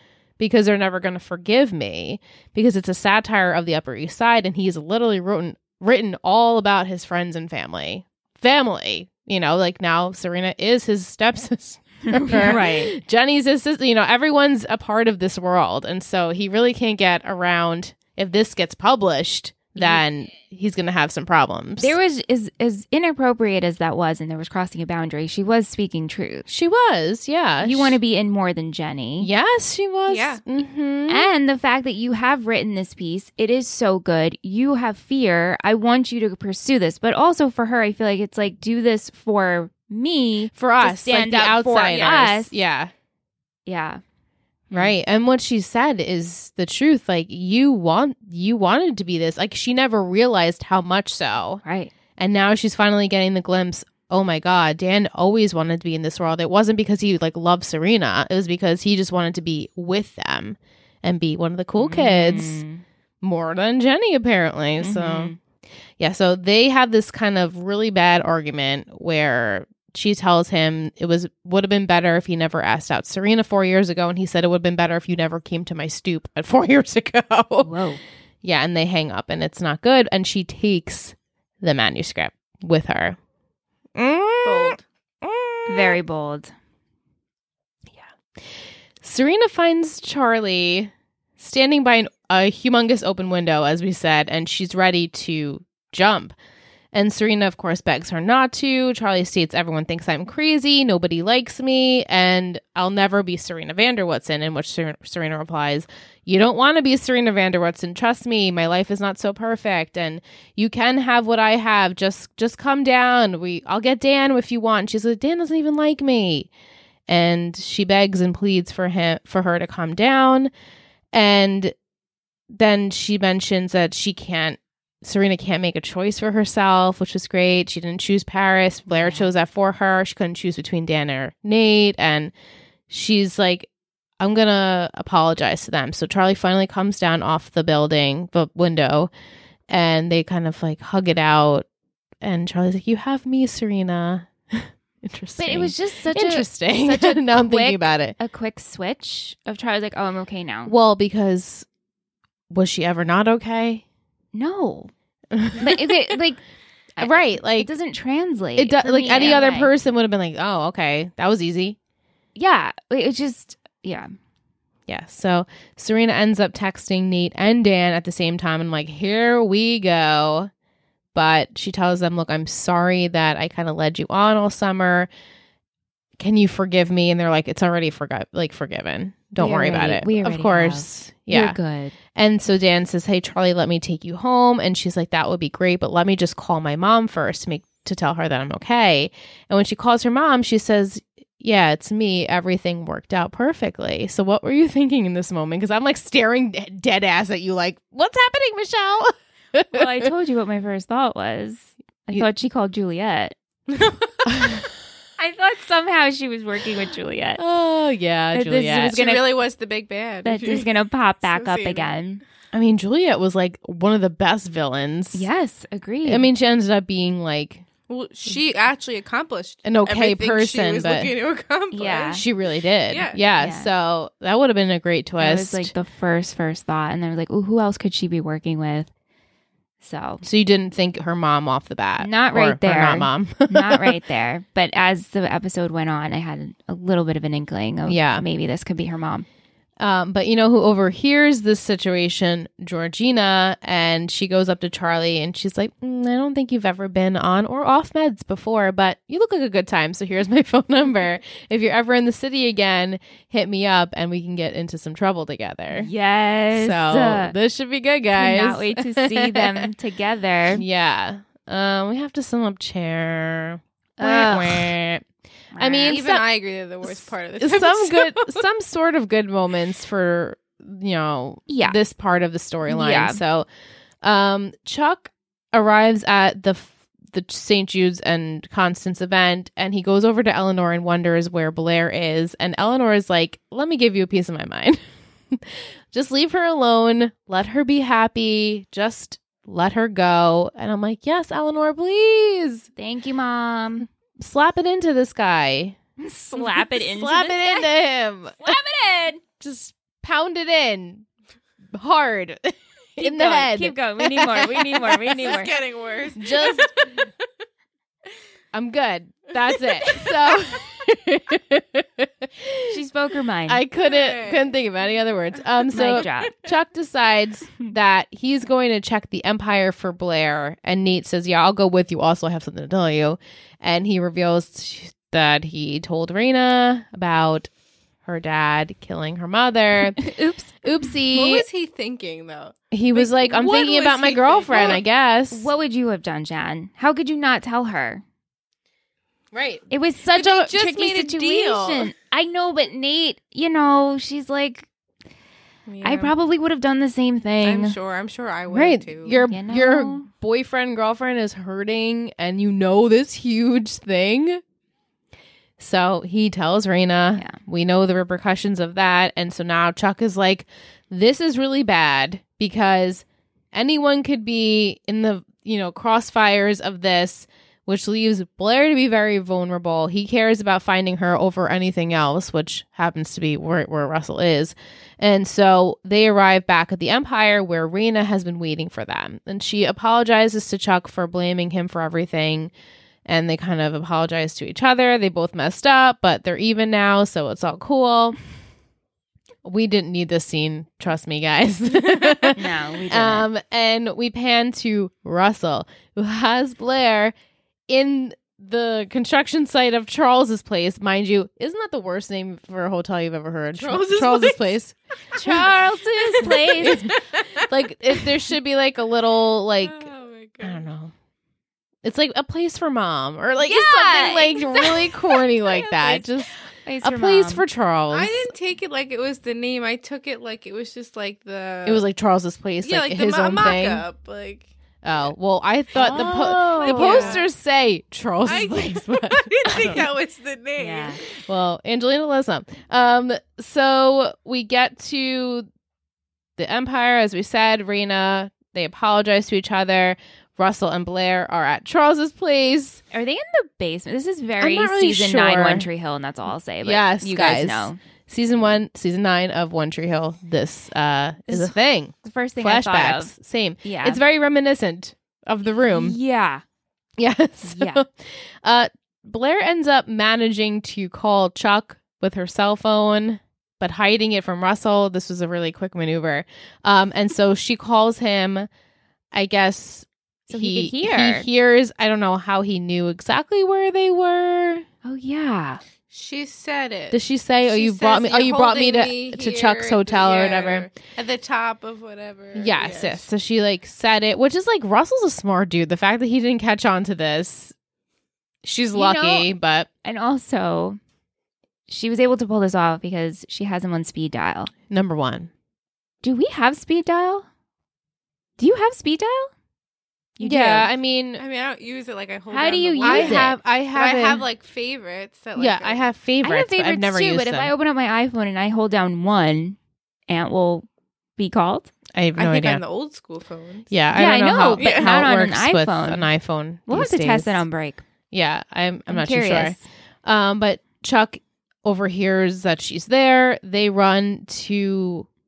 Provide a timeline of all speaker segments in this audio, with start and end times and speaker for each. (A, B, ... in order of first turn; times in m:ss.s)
0:00.4-0:22.0 A
0:12.1-0:12.9 B
0:19.8-0:20.0 B
0:21.8-0:26.4 B
0:26.5-0:28.0 A
0:27.6-0:29.3 B
0:29.2-0:31.3 A
0:30.1-0:30.4 C
0:31.1-0:42.5 B
0:40.5-0:42.9 A
0:41.9-0:42.1 C
0:43.6-0:44.0 B
0:44.7-0:51.6 A
0:51.6-0:51.9 B
0:52.2-1:02.6 A
1:01.8-1:02.8 B
1:03.2-1:05.3 A
1:04.8-1:05.4 B
1:06.0-1:17.7 A
1:17.6-1:18.0 B
1:18.4-1:23.2 A
1:24.0-1:26.0 A
1:24.4-1:24.8 C
1:25.7-1:26.5 B
1:29.0-1:36.3 A
1:36.9-1:56.5 A
1:57.1-2:00.5 A
2:01.1-2:01.7 A
2:02.5-2:12.3 A
2:08.9-2:09.3 B
2:12.9-2:13.7 A
2:14.2-2:19.1 A
2:19.7-2:21.6 A
2:22.2-2:28.2 A
2:25.4-2:30.7 B
2:30.6-2:31.6 A
2:32.5-2:33.8 A
2:34.3-2:34.9 B
2:35.3-2:35.8 A
2:35.5-2:36.4 B
2:37.0-2:39.7 B
2:37.0-2:37.7 A
2:38.6-2:41.8 A
2:42.4-2:44.1 B
2:44.9-2:50.5 A
2:51.1-2:55.1 A
2:56.2-3:01.6 A
2:59.4-3:01.9 B
3:02.1-3:20.1 A
3:19.7-3:23.3 B
3:23.7-3:24.1 C
3:24.2-3:24.6 A
3:25.2-3:27.4 B
3:27.4-3:29.0 A
3:28.3-3:29.2 B
3:28.8-3:30.7 C
3:30.2-3:32.2 B
3:31.2-3:32.0 C
3:32.5-3:35.3 A
3:35.1-3:36.3 B
3:36.0-3:37.6 A
3:37.9-3:42.2 C
3:39.6-3:41.1 A
3:41.7-3:42.2 B
3:42.1-3:45.7 A
3:42.9-3:43.2 C
3:43.4-3:43.7 B
3:45.2-3:48.9 B
3:49.8-3:50.2 B
3:50.2-3:54.0 A
3:52.0-3:59.2 B
3:57.8-3:58.2 A
3:59.8-4:15.9 A
4:15.7-4:17.3 B
4:16.5-4:19.7 A
4:18.1-4:20.6 B
4:20.5-4:25.0 A
4:24.0-4:24.7 B
4:25.5-4:26.0 B
4:25.6-4:26.2 A
4:25.9-4:28.4 C
4:26.8-4:33.5 A
4:31.5-4:31.8 B
4:32.7-4:33.2 B
4:34.0-4:44.8 A
4:45.3-4:52.7 A
4:52.8-4:53.9 B
4:54.2-4:55.8 A
4:56.0-4:57.7 B
4:56.3-4:58.6 A
4:58.4-4:59.2 B
4:59.4-5:01.0 A
5:01.7-5:04.9 A
5:03.0-5:05.5 B
5:04.9-5:07.1 C
5:06.2-5:06.9 A
5:08.5-5:12.8 A
5:09.5-5:10.5 C
5:12.7-5:13.6 B
5:13.5-5:27.5 A
5:13.8-5:14.5 C
5:15.7-5:16.3 B
5:28.0-5:30.0 A
5:30.0-5:30.6 B
5:30.6-5:31.4 A
5:31.1-5:34.8 C
5:32.7-5:35.5 A
5:34.5-5:34.8 B
5:35.3-5:38.0 B
5:39.3-5:39.6 A
5:39.7-5:44.7 B
5:40.1-5:41.9 C
5:45.6-5:46.1 C
5:45.8-5:47.8 B
5:47.4-5:49.2 C
5:48.5-5:54.4 A
5:49.2-5:50.1 B
5:55.6-6:22.5 A
6:23.0-6:28.2 A
6:29.4-6:37.1 A
6:32.3-6:33.3 B
6:37.7-6:49.9 A
6:43.6-6:44.6 C
6:45.2-6:46.9 B
6:46.2-6:48.1 C
6:49.6-6:50.7 C
6:50.4-6:50.9 A
6:51.8-6:58.3 A
6:53.4-6:54.5 B
6:55.5-6:56.0 C
6:56.6-6:57.4 B
6:57.9-7:01.8 C
7:01.6-7:03.8 A
7:02.6-7:04.5 C
7:04.8-7:09.8 A
7:05.7-7:07.2 B
7:05.8-7:07.3 C
7:08.2-7:11.0 C
7:10.6-7:11.0 B
7:11.2-7:15.5 A
7:16.4-7:22.8 A
7:22.9-7:27.8 B
7:24.4-7:25.7 A
7:26.6-7:36.0 A
7:31.3-7:33.1 B
7:33.6-7:34.0 B
7:35.7-7:36.4 B
7:37.0-7:48.5 A
7:37.4-7:37.8 B
7:49.1-7:54.6 A
7:50.3-7:51.3 B
7:54.8-7:55.6 B
7:55.9-8:03.0 C
7:56.9-8:00.7 A
8:02.3-8:07.5 A
8:08.4-8:09.7 A
8:08.7-8:09.3 B
8:09.8-8:10.8 B
8:11.7-8:14.5 B
8:14.7-8:15.3 A
8:16.0-8:17.2 B
8:18.4-8:19.3 B
8:20.2-8:20.7 B
8:20.2-8:21.2 A
8:21.2-8:25.9 C
8:22.3-8:23.3 B
8:22.8-8:24.2 A
8:25.4-8:27.5 A
8:26.2-8:29.6 B
8:30.1-8:30.6 B
8:31.2-8:31.7 B
8:31.9-8:32.6 A
8:32.2-8:33.7 C
8:33.7-8:37.4 A
8:33.9-8:36.1 B
8:34.6-8:35.0 C
8:36.7-8:37.8 B
8:38.1-8:45.1 A
8:38.9-8:39.6 B